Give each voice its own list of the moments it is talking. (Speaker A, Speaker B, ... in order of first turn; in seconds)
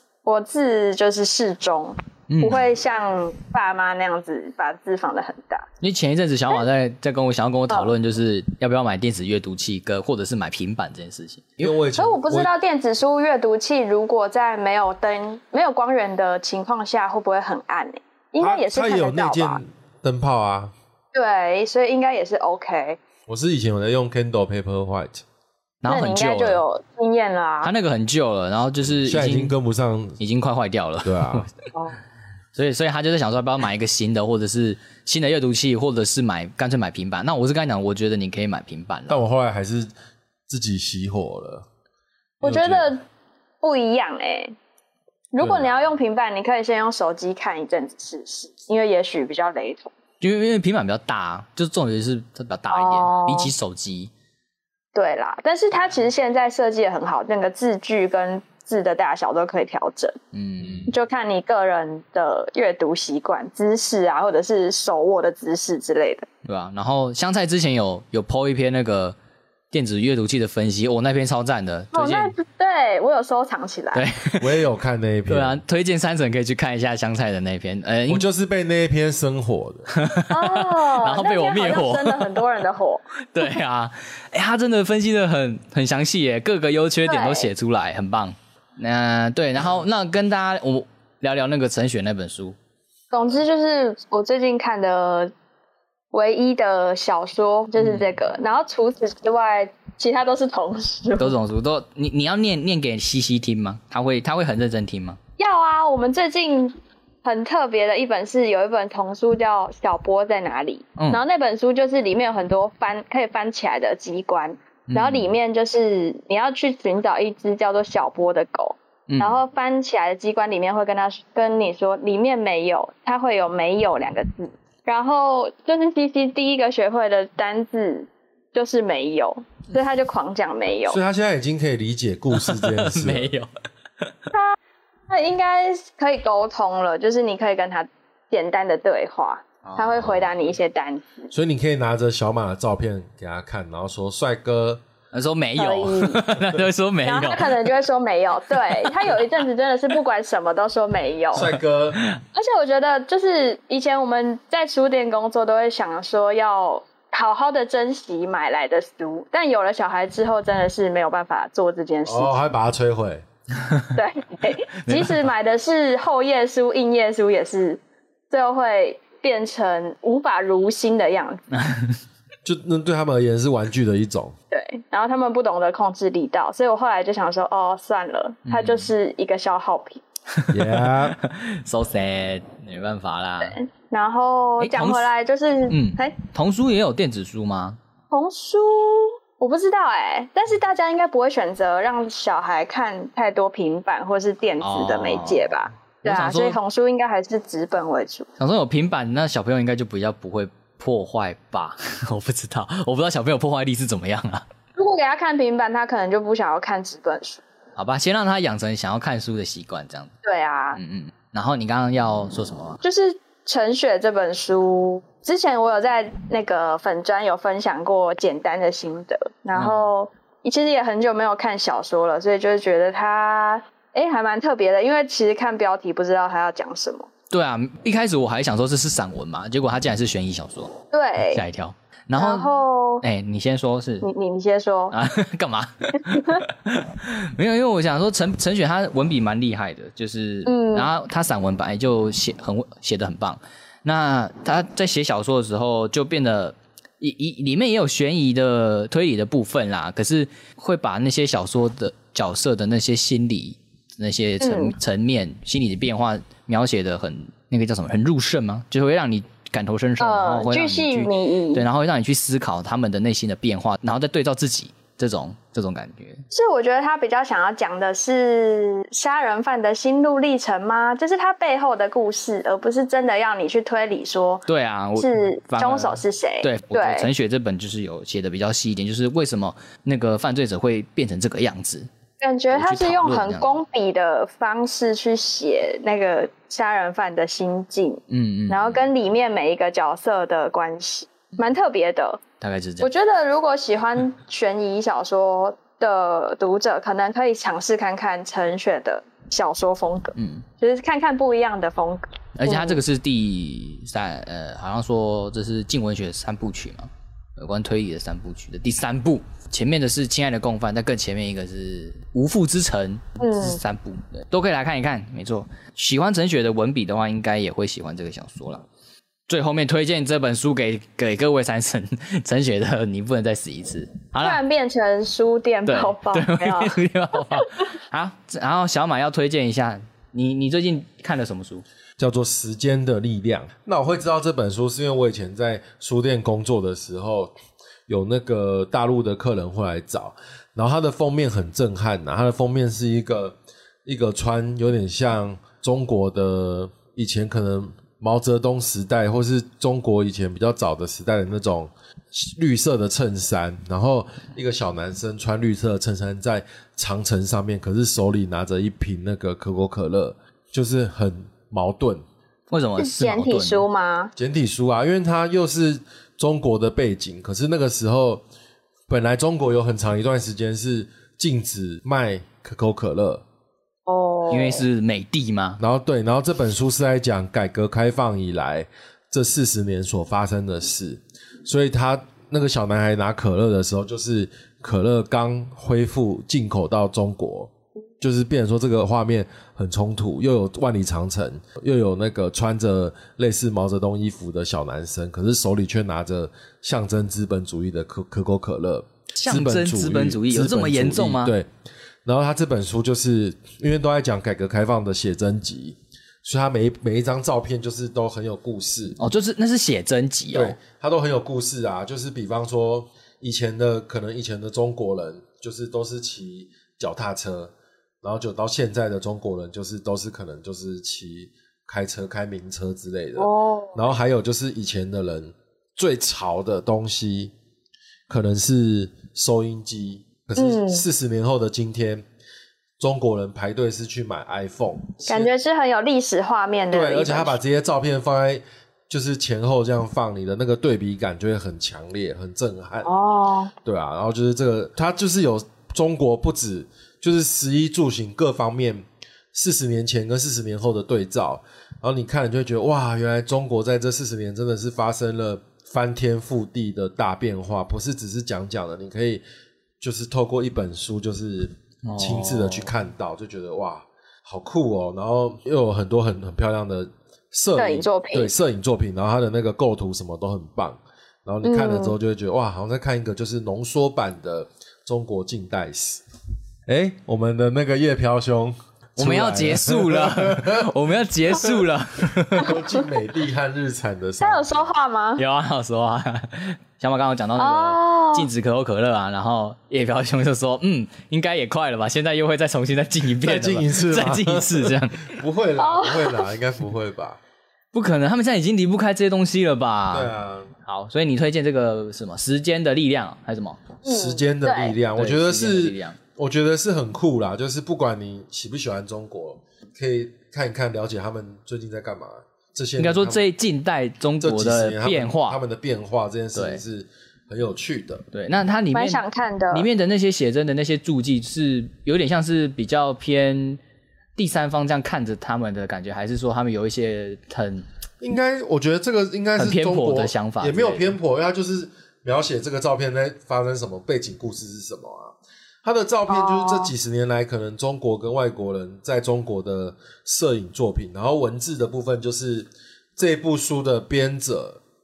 Speaker A: 0.2-5.7, 12.0-19.6, 21.1-23.0, 25.9-27.7, 42.4-43.0, 43.6-44.5, 45.3-49.9, 52.7-53.5, 54.9-60.2, 60.9-66.2, 71.9-74.1, 80.3-83.4, 87.1-87.5, 93.1-95.3, 96.1-101.3, 105.4-131.0, 135.1-141.3, 145.6-146.2, 147.0-151.5, 152.3-162.4, 163.9-171.4, 174.5-180.0, 183.4-186.2, 188.1-198.3, 204.8-207.4, 210.2-210.8, 212.8-227.1, 230.9-231.4, 232.2-233.0, 234.0-234.9, 236.1-236.4, 240.4-240.9, 254.4-254.8, 260.0-261.6, 266.3-277.1, 282.2-292.2, 292.8-302.8, 313.2-313.6, 324.2-327.6, 362.8-364.1, 373.9-374.6, 423.2-423.8, 430.4-430.9, 435.1-437.4, 442.8-443.5, 467.6-468.3, 471.4-471.9, 484.2-485.2, 487.4-488.3, 495.6-496.3, 503.8-504.8, 518.7-519.7, 536.1-536.7
Speaker B: 2.3-2.6, 5.8-11.8, 25.8-26.6, 27.6-29.5, 30.2-31.5, 32.5-39.2, 50.2-54.1, 60.3-60.9, 66.4-69.2, 69.7-72.3, 73.9-74.6, 75.3-78.2, 79.9-82.4, 83.3-92.5, 97.8-98.1, 101.2-105.2, 114.9-115.3, 119.1-119.4, 132.3-133.5, 139.6-140.1, 145.1-147.7, 148.8-149.2, 151.4-152.2, 163.6-163.9, 164.8-165.3, 171.6-172.0, 178.5-178.9, 180.3-183.6, 184.6-185.1, 185.7-187.8, 194.6-196.6, 198.4-204.5, 207.8-210.1, 210.8-212.8, 219.5-219.9, 227.3-230.8, 231.3-234.1, 234.9-266.2, 274.5-281.9, 282.5-283.6, 288.1-288.9, 292.4-292.9, 300.1-300.4, 302.4-318.6, 319.3-324.4, 325.6-331.6, 362.5-363.6, 374.3-375.6, 399.1-401.3, 409.0-410.6, 461.8-462.7, 479.0-482.6, 485.2-495.1, 497.7-500.1, 500.6-503.7, 504.9-506.0, 512.8-515.4, 516.3-516.6, 518.1-519.0, 519.5-523.6, 524.1-527.6, 529.4-531.0
Speaker C: 11.6-12.5, 18.4-20.7, 23.3-25.2, 28.8-30.2, 31.0-31.5, 39.1-39.9, 40.5-41.6, 42.4-42.9, 45.4-45.7, 60.6-60.9, 74.4-75.6, 78.1-79.9, 130.9-133.3, 141.3-144.8, 151.3-152.0, 162.0-163.2, 172.4-174.3, 180.5-181.2, 332.0-337.3, 337.9-362.0, 364.1-368.2, 368.9-373.2, 375.6-401.5, 402.1-409.0, 410.3-427.3, 428.1-432.0, 432.8-435.3, 436.7-442.9, 443.6-459.2, 459.8-476.0, 476.7-480.6, 482.3-484.7, 493.2-497.2, 499.9-500.5, 503.8-513.2, 514.2-518.0, 528.0-544.6